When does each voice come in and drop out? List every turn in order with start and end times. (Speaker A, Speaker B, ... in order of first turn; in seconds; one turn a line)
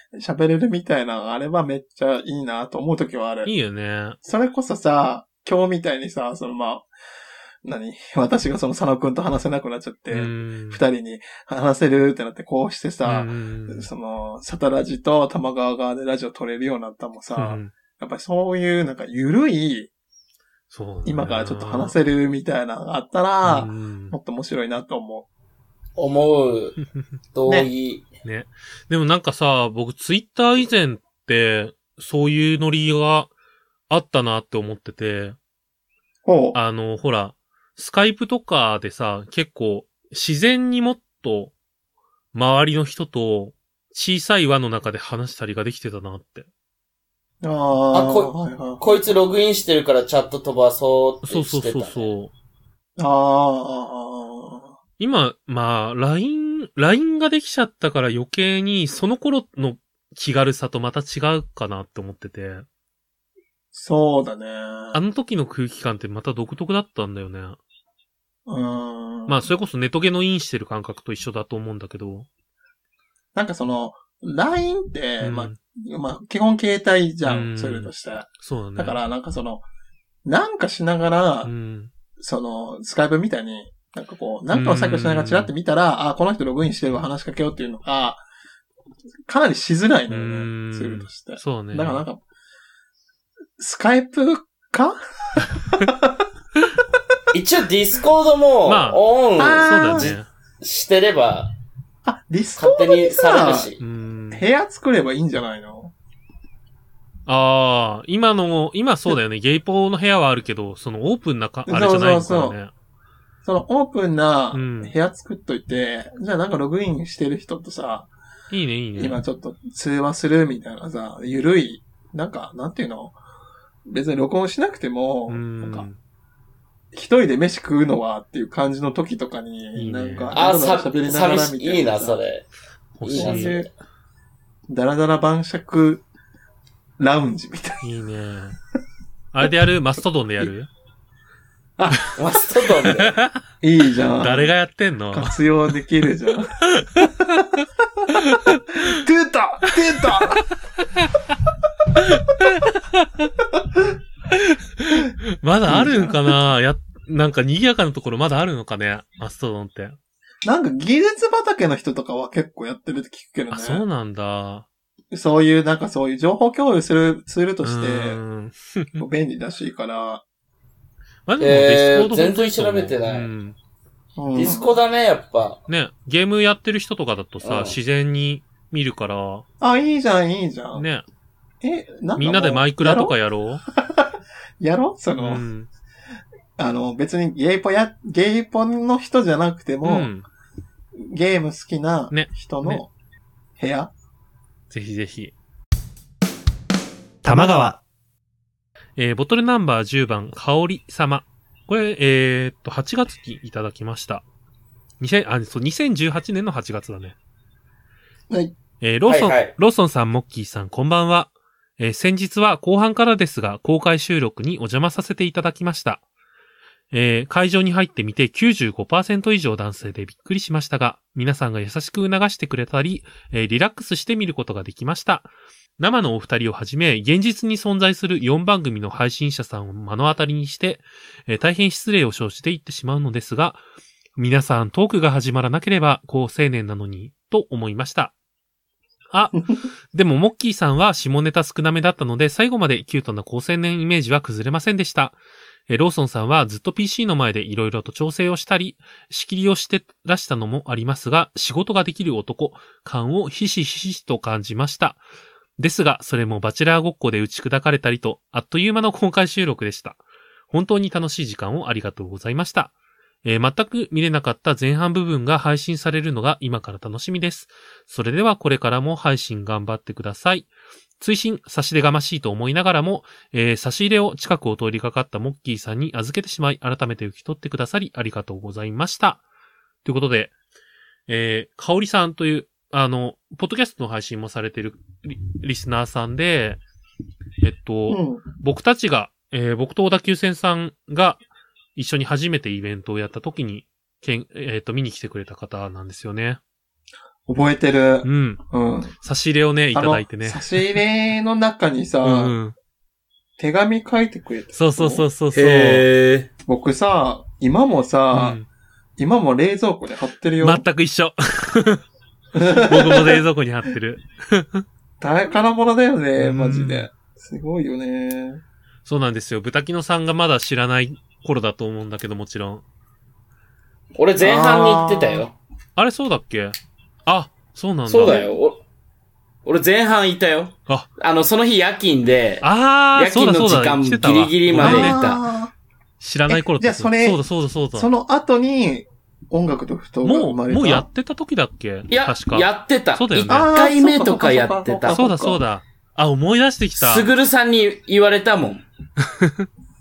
Speaker A: 0.1-3.5
Speaker B: 3.4-4.2
Speaker A: 4.2-6.9
Speaker A: 7.6-19.9
Speaker B: 10.1-10.8
Speaker B: 13.0-13.9
Speaker B: 17.3-17.7
Speaker B: 20.7-21.9
Speaker A: 21.0-25.2
Speaker B: 23.4-24.1
Speaker C: 26.0-26.8
Speaker C: 27.3-28.1
Speaker B: 28.2-33.3
Speaker B: 33.9-35.4
Speaker A: 36.2-36.6
Speaker B: 36.5-41.5
Speaker B: 42.3-46.5
Speaker A: 47.4-49.0
Speaker C: 47.9-52.1
Speaker B: 51.2-52.3
Speaker A: 53.0-54.7
Speaker B: 55.0-62.6
Speaker A: 63.7-65.0
Speaker B: 64.9-67.6
Speaker A: 68.5-69.4
Speaker B: 69.3-72.3
Speaker A: 73.3-79.6
Speaker B: 75.2-75.6
Speaker B: 77.2-79.0
Speaker A: 80.2-81.5
Speaker B: 81.4-81.9
Speaker A: 82.2-88.2
Speaker B: 84.5-85.5
Speaker A: 89.3-92.2
Speaker B: 90.1-92.0
Speaker A: 93.6-96.2
Speaker C: 97.3-101.5
Speaker B: 98.7-99.0
Speaker A: 99.4-100.2
Speaker B: 99.6-100.3
Speaker A: 102.0-103.7
Speaker C: 102.6-103.8
Speaker B: 103.8-104.4
Speaker A: 104.3-105.9
Speaker B: 107.2-112.7
Speaker A: 111.7-112.6
Speaker A: 113.4-118.1
Speaker B: 114.5-114.9
Speaker B: 118.5-119.2
Speaker A: 119.0-123.2
Speaker A: 123.9-125.9
Speaker B: 125.3-126.0
Speaker A: 126.9-132.2
Speaker B: 129.7-130.4
Speaker C: 130.3-132.5
Speaker B: 133.0-133.6
Speaker C: 133.0-133.7
Speaker A: 133.1-133.7
Speaker A: 134.7-136.0
Speaker A: 137.0-137.8
Speaker B: 137.8-138.6
Speaker B: 139.3-140.7
Speaker C: 142.0-143.1
Speaker B: 143.0-143.4
Speaker A: 143.6-144.5
Speaker B: 144.2-145.4
Speaker A: 145.1-150.4
Speaker B: 146.7-147.5
Speaker B: 148.1-148.9
Speaker B: 150.0-151.2
Speaker B: 152.0-153.3
Speaker B: 154.3-160.0
Speaker A: 155.7-156.3
Speaker A: 160.4-163.8
Speaker B: 163.5-164.7
Speaker A: 165.1-168.2
Speaker B: 167.6-169.0
Speaker A: 169.0-170.2
Speaker B: 171.3-173.6
Speaker C: 171.4-173.3
Speaker A: 174.2-174.8
Speaker C: 174.3-175.6
Speaker B: 175.7-179.4
Speaker C: 177.4-177.8
Speaker A: 179.6-180.8
Speaker B: 180.7-181.0
Speaker A: 181.6-183.1
Speaker B: 182.2-183.6
Speaker A: 183.7-185.4
Speaker B: 185.2-185.7
Speaker A: 186.6-190.1
Speaker B: 189.8-190.2
Speaker A: 190.9-192.9
Speaker B: 192.1-192.8
Speaker A: 193.6-193.9
Speaker B: 194.7-195.3
Speaker B: 197.2-197.8
Speaker A: 197.2-197.7
Speaker B: 199.0-204.2
Speaker B: 205.0-207.2
Speaker A: 208.3-208.6
Speaker B: 208.8-216.0
Speaker C: 209.1-209.5
Speaker B: 216.9-233.6
Speaker B: 234.2-238.1
Speaker B: 239.1-245.2
Speaker B: 245.7-255.0
Speaker B: 255.6-262.7
Speaker B: 263.2-279.2
Speaker B: 279.8-280.3
Speaker B: 281.1-286.6
Speaker B: 287.4-291.2
Speaker A: 287.9-288.2
Speaker B: 291.8-296.4
Speaker A: 297.3-298.9
Speaker B: 298.0-298.4
Speaker B: 299.0-300.6
Speaker A: 299.7-302.4
Speaker B: 302.0-302.5
Speaker A: 303.4-305.1
Speaker B: 304.5-305.9
Speaker C: 305.3-306.3
Speaker A: 306.5-308.4
Speaker B: 308.1-308.4
Speaker A: 309.0-310.6
Speaker B: 310.4-311.8
Speaker A: 312.3-313.2
Speaker B: 312.4-314.6
Speaker A: 315.0-318.4
Speaker B: 316.2-316.9
Speaker B: 318.9-322.6
Speaker C: 324.0-325.3
Speaker A: 324.2-325.2
Speaker B: 325.8-326.5
Speaker B: 327.1-328.3
Speaker C: 327.9-328.6
Speaker C: 329.4-335.2
Speaker B: 332.4-335.0
Speaker A: 334.5-335.5
Speaker B: 336.0-337.9
Speaker A: 336.3-337.2
Speaker A: 337.7-340.9
Speaker B: 340.0-343.5
Speaker C: 341.9-345.0
Speaker A: 343.3-345.4
Speaker B: 344.9-347.1
Speaker C: 346.8-348.6
Speaker B: 349.2-349.4